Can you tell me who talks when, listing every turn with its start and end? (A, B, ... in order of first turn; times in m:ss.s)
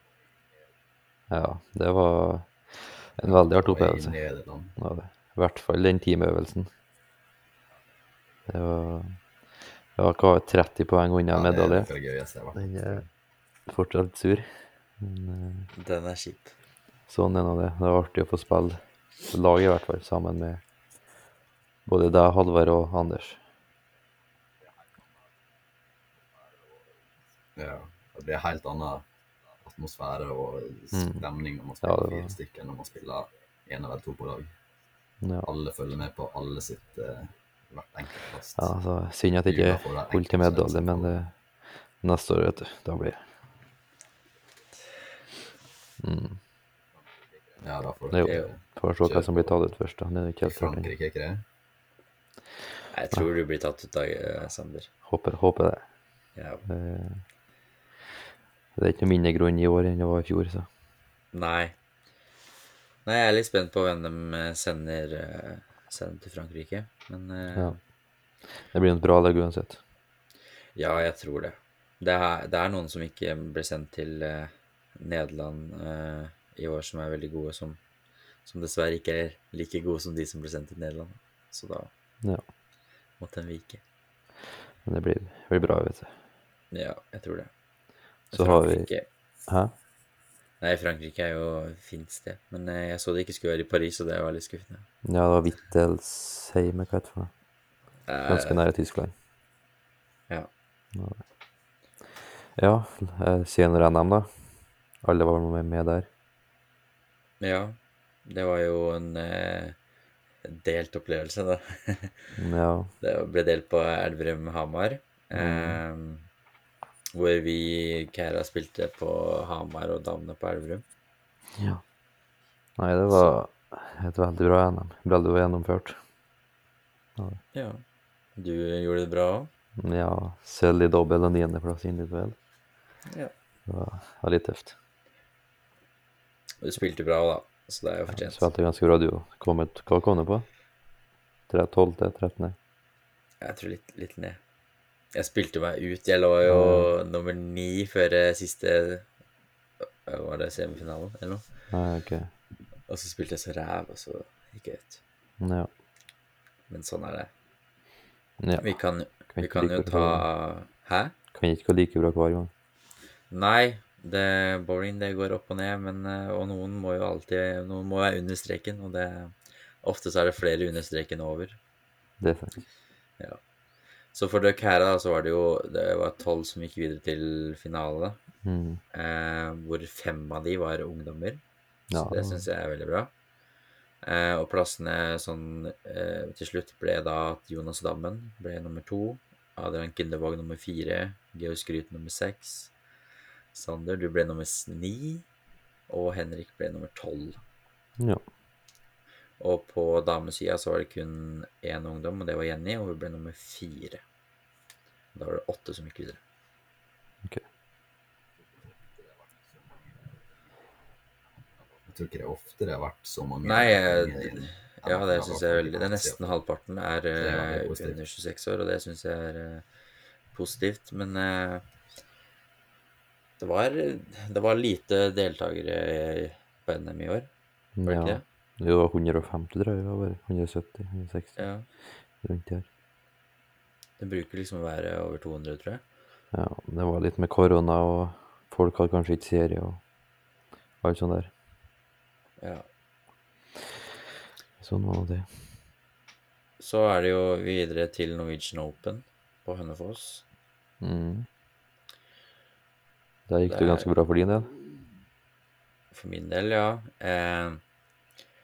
0:01.3-0:04.2 A
0:03.2-0:04.8 B
0:04.8-0:06.7 A
0:08.5-0:09.2 A
0:09.9-0:11.9 A
0:11.3-0:13.1 B
0:12.5-0:13.0 A
0:13.7-0:14.5 A
0:15.0-0:15.7 A
0:15.7-0:16.5 C
0:17.1-0:20.6 A
0:21.8-0:23.4 A
0:27.6-0:29.0 B
0:29.6-0:34.5 B
0:30.9-0:31.2 A
0:31.8-0:32.3 A
0:35.2-0:35.5 A
0:35.4-0:38.7 B
0:38.6-0:43.2 A
0:39.4-0:41.1 B
0:46.0-0:46.4 A
0:47.6-0:49.5 B
0:48.1-0:50.9 A
0:50.4-0:51.4 B
0:52.9-0:54.9 C
0:55.0-0:55.8 A
0:56.3-0:56.6 C
0:56.6-0:57.2 A
0:58.8-1:00.7 A
1:01.3-1:01.7 C
1:03.0-1:07.7 C
1:08.7-1:09.8 A
1:10.8-1:17.8 C
1:18.4-1:21.9 C
1:23.2-1:23.8 C
1:24.8-1:26.2 A
1:26.7-1:27.5 C
1:28.3-1:28.9 A
1:28.3-1:29.0 C
1:29.5-1:29.7 A
1:30.6-1:34.8 C
1:35.0-1:37.3 A
1:38.1-1:38.6 C
1:38.2-1:39.1 A
1:40.9-1:41.2 A
1:42.6-1:44.3 A
1:45.0-1:46.1 A
1:47.4-1:49.8 C
1:50.4-1:52.2 C
1:52.4-1:52.9 A
1:53.0-1:56.2 C
1:55.3-1:55.8 A
1:57.1-2:00.8 C
2:01.6-2:01.8 A
2:02.8-2:06.0 A
2:07.5-2:07.8 C
2:08.4-2:09.5 C
2:09.8-2:12.4 A
2:13.7-2:14.8 A
2:16.6-2:18.5 C
2:18.1-2:20.4 A
2:21.5-2:22.6 A
2:23.4-2:24.4 C
2:25.1-2:29.0 C
2:26.4-2:26.9 A
2:30.1-2:31.4 C
2:31.7-2:32.3 A
2:32.9-2:35.0 C
2:35.4-2:35.7 A
2:36.7-2:37.3 C
2:38.4-2:38.7 A
2:38.6-2:41.1 C
2:39.3-2:40.2 A
2:41.3-2:42.5 A
2:43.3-2:51.6 C
2:52.2-2:52.6 A
2:54.1-2:58.2 C
2:58.4-2:58.8 A
2:58.9-3:01.4 C
3:01.9-3:02.5 A
3:01.9-3:03.1 C
3:04.0-3:12.7 C
3:13.5-3:15.2 C
3:15.9-3:17.4 C
3:19.4-3:24.0 C
3:25.1-3:26.2 C
3:31.8-3:36.4 B
3:33.4-3:39.6 C
3:37.2-3:38.0 B
3:40.3-3:41.6 C
3:43.4-3:47.3 C
3:47.8-3:51.4 A
3:47.8-3:48.2 C
3:51.4-3:51.7 C
3:52.2-3:52.6 A
3:54.0-3:55.8 C
3:56.3-3:59.8 A
4:00.8-4:01.3 A
4:02.4-4:02.6 C
4:04.6-4:05.3 A
4:06.6-4:10.2 C
4:10.8-4:11.3 A
4:13.3-4:14.5 A
4:13.4-4:13.9 C
4:15.9-4:17.6 C